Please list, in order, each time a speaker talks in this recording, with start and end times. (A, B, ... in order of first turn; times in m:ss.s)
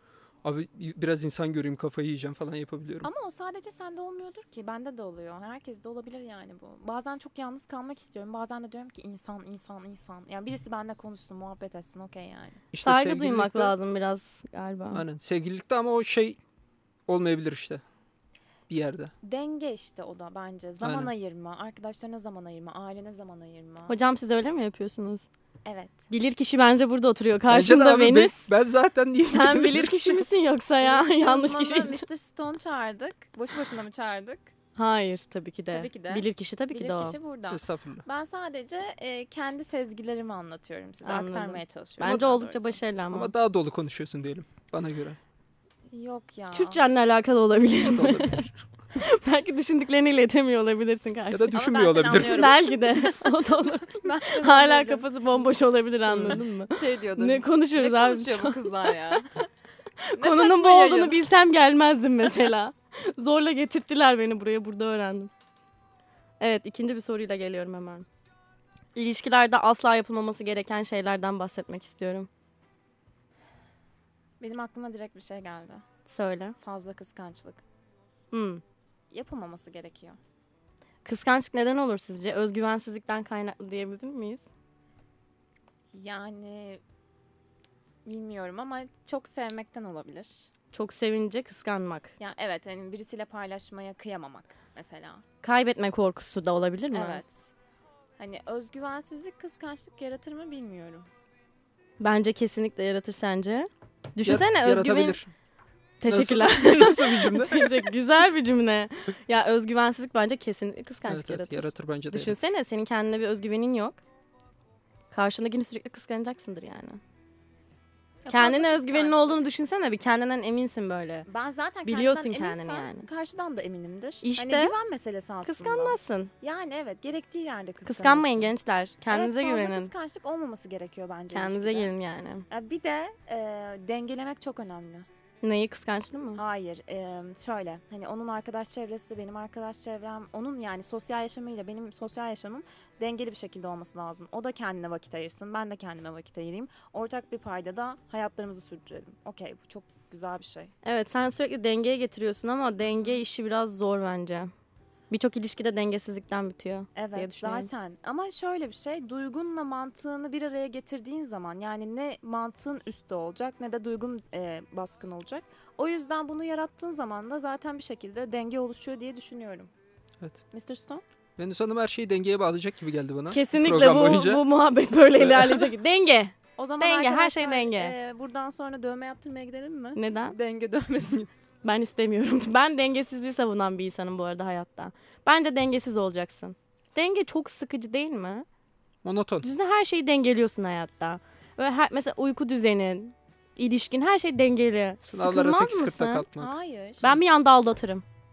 0:00.4-0:03.1 A
0:03.0-0:12.6 B
0:12.7-0:13.7 A
0:12.8-0:15.0 C
0:14.9-0:16.4 A
0:17.1-0:17.8 A
0:18.7-0:19.1 A
0:19.2-0:24.0 B
0:20.8-0:21.1 A
0:23.9-0:25.3 C
0:25.6-0:26.1 B
0:26.1-0:28.5 C
0:27.5-0:30.3 A
0:29.2-0:32.0 C
0:30.8-0:34.5 B
0:34.8-0:37.2 C
0:35.7-0:42.8 B
0:37.5-0:38.0 A
0:41.0-0:43.3 C
0:42.0-0:42.3 A
0:43.1-0:45.2 A
0:45.9-0:46.8 B
0:46.5-0:48.4 C
0:47.8-0:48.5 A
0:49.0-0:51.6 C
0:51.3-0:52.5 A
0:51.5-0:53.1 B
0:52.2-0:59.2 C
0:53.9-0:55.4 B
0:56.1-0:56.4 A
0:56.7-0:59.3 B
1:00.0-1:05.3 C
1:00.1-1:01.2 B
1:06.4-1:08.0 C
1:08.9-1:12.3 C
1:14.4-1:15.8 B
1:16.0-1:16.6 C
1:16.6-1:17.6 B
1:18.3-1:18.6 C
1:19.1-1:20.2 B
1:21.0-1:24.5 C
1:25.9-1:26.8 B
1:28.0-1:30.5 B
1:30.7-1:32.1 C
1:32.2-1:35.2 B
1:35.4-1:37.2 C
1:36.9-1:37.5 B
1:38.2-1:41.1 B
1:42.0-1:45.2 C
1:44.2-1:45.3 A
1:46.0-1:54.0 C
1:46.0-1:47.9 A
1:51.1-1:52.3 A
1:55.1-1:57.0 C
1:58.2-1:59.4 B
1:58.3-2:01.2 C
2:01.3-2:08.5 B
2:01.8-2:03.1 C
2:04.2-2:04.8 C
2:05.4-2:06.3 C
2:07.8-2:09.9 C
2:09.1-2:11.9 B
2:11.3-2:12.4 C
2:12.5-2:15.1 B
2:15.4-2:16.4 C
2:16.3-2:30.7 B
2:30.8-2:34.5 C
2:32.8-2:33.2 B
2:35.1-2:37.7 C
2:36.9-2:49.7 B
2:50.5-2:51.0 B
2:51.4-2:54.4 A
2:53.3-2:58.0 C
2:55.2-2:55.7 A
2:56.6-3:01.3 B
3:00.0-3:00.4 C
3:01.6-3:08.4 C
3:09.0-3:09.5 A
3:09.4-3:16.3 C
3:15.1-3:16.5 A
3:16.4-3:17.2 B
3:17.0-3:18.0 C